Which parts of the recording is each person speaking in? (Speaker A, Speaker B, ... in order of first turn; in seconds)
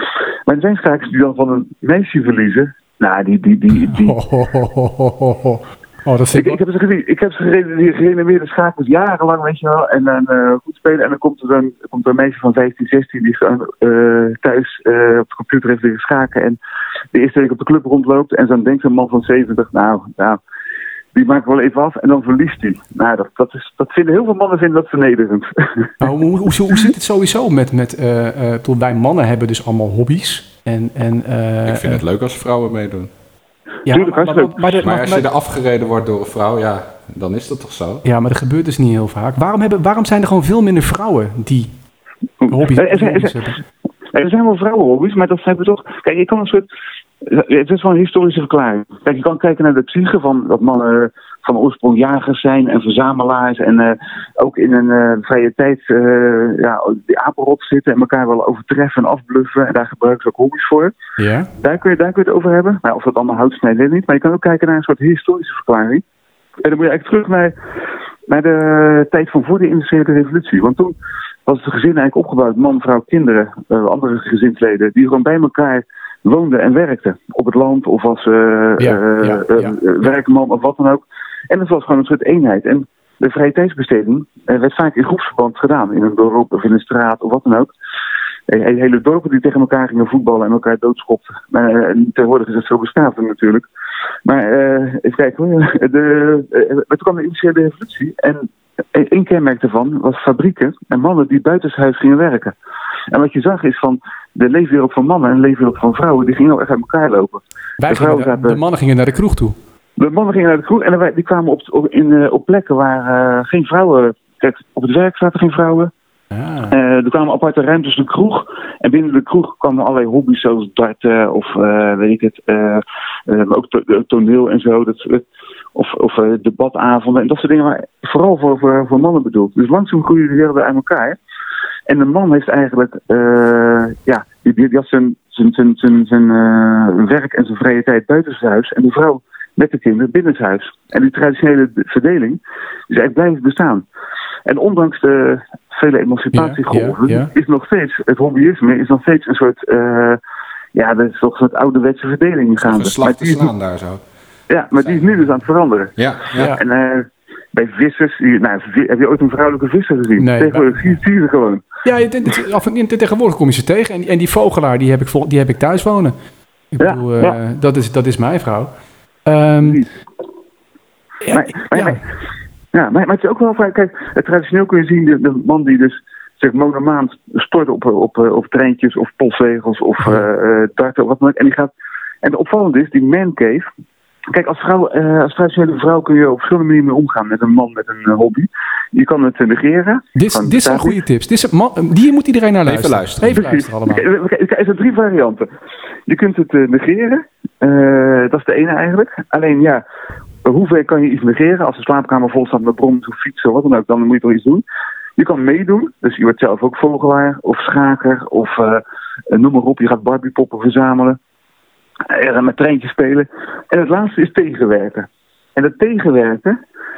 Speaker A: 0.5-4.2, 6.3-16.6, 17.1-20.4, 21.1-25.9, 33.9-34.5, 42.4-43.4, 44.1-46.6, 47.2-60.9, 61.6-66.0, 66.6-67.5, 68.3-70.9, 71.5-87.7, 88.5-93.7, 94.2-102.5, 103.1-108.6, 110.0-115.9, 116.7-131.2, 131.9-143.8, 144.4-150.2, 150.7-153.5, 154.5-161.6, 166.8-167.4, 171.3-172.0, 172.7-181.7, 182.2-183.7, 184.3-191.0, 193.3-195.5, 196.1-199.8, 200.4-204.6, 205.2-211.2, 212.1-216.6
Speaker B: 3.8-6.6, 26.0-32.0, 33.9-35.3, 38.0-41.7, 42.5-43.6, 61.2-61.5, 78.8-79.8, 107.8-109.5, 116.3-116.7, 146.3-147.3, 160.2-160.9, 161.8-166.1, 166.7-168.7, 169.2-169.8, 171.2-172.0, 190.2-194.0
Speaker C: 31.6-33.1, 34.8-38.0, 152.6-154.0, 156.0-156.5, 192.7-193.4